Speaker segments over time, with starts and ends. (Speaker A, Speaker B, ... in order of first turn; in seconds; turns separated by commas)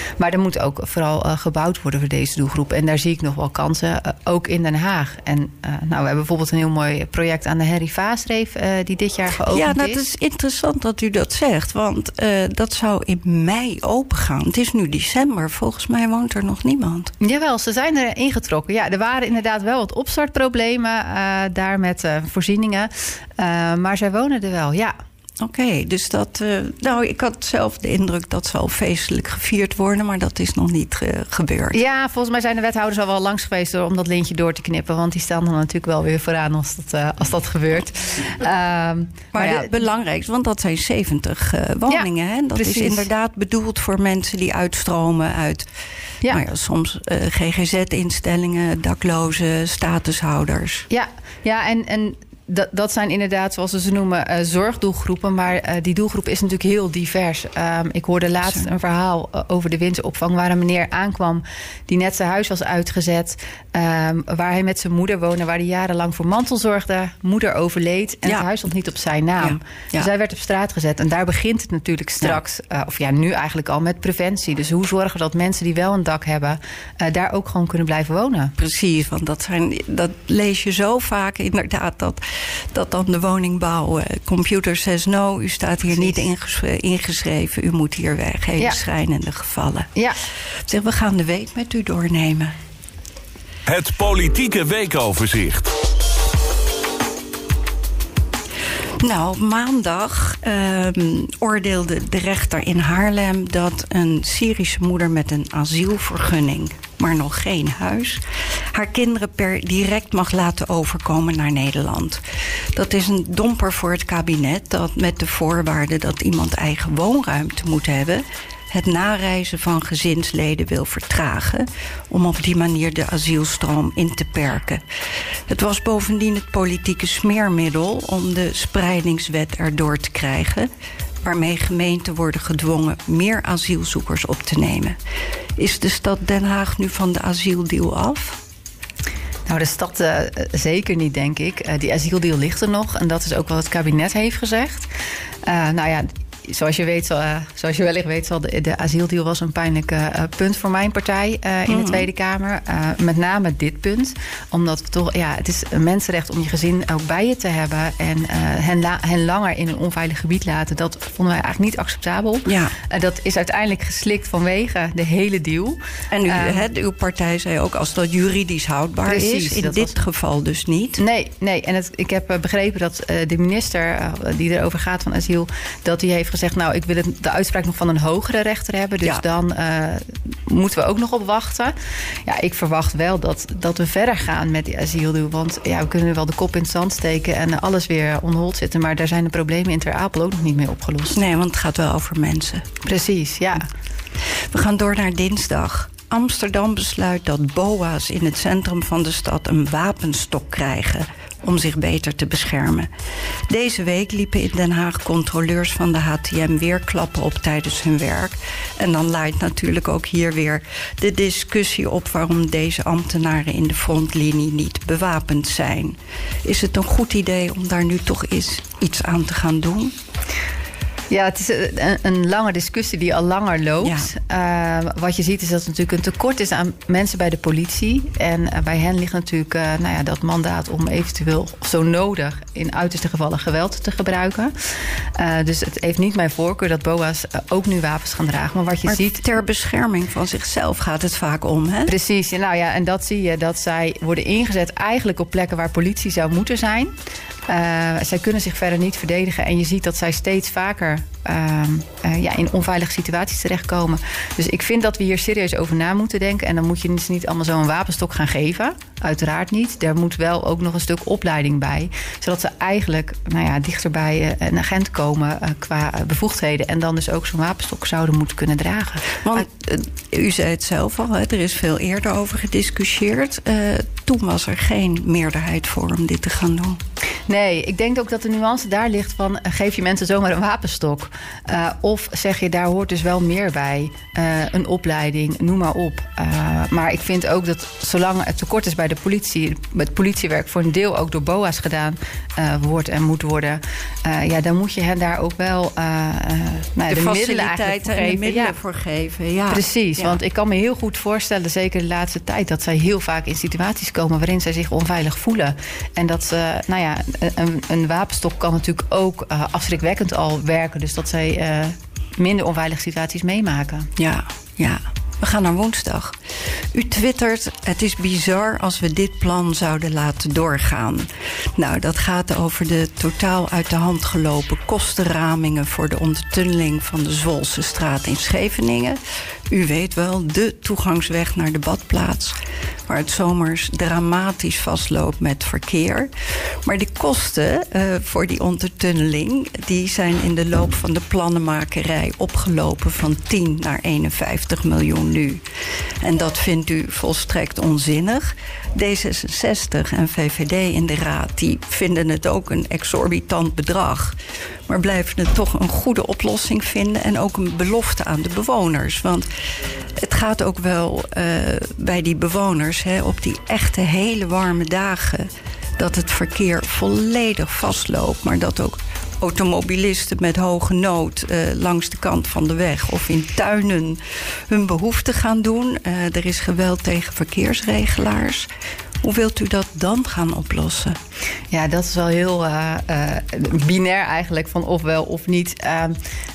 Speaker A: 0.2-10.0, Speaker B: 9.4-17.1, Speaker A: 17.2-24.9, Speaker B: 25.4-31.8, Speaker A: 31.7-39.8, Speaker B: 39.3-45.7, Speaker A: 41.9-43.1, Speaker B: 46.2-50.9, Speaker A: 50.9-78.5, Speaker B: 69.4-70.1, Speaker B: 78.6-89.9, Speaker B: 90.7-92.5, Speaker C: 93.7-95.7, Speaker B: 99.0-108.2, Speaker B: 108.7-112.2, Speaker B: 112.7-124.8, Speaker B: 125.5-130.7, Speaker B: 131.2-135.0, Speaker B: 135.6-138.4, Speaker A: 139.5-144.9, Speaker A: 145.4-166.7, Speaker B: 151.7-152.1, Speaker B: 162.4-162.7, Speaker B: 166.1-171.0, Speaker A: 169.0-170.0, Speaker A: 171.0-181.7, Speaker A: 182.3-191.2, Speaker B: 191.1-192.7, Speaker A: 192.8-193.7, Speaker B: 194.3-202.9, Speaker B: 203.5-219.9, Speaker A: 221.1-234.5, Speaker B: 223.8-224.1, Speaker A: 235.1-239.2, Speaker B: 238.8-241.9, Speaker A: 241.9-246.9, Speaker A: 247.5-269.4, Speaker B: 269.2-276.8, Speaker A: 277.3-298.6, Speaker B: 296.9-300.2, Speaker A: 299.5-313.9, Speaker B: 314.0-329.0, Speaker B: 329.5-332.4, Speaker B: 332.9-345.4, Speaker B: 346.0-354.2, Speaker B: 354.7-359.3, Speaker B: 359.9-378.5, Speaker B: 379.0-381.0, Speaker A: 381.5-386.0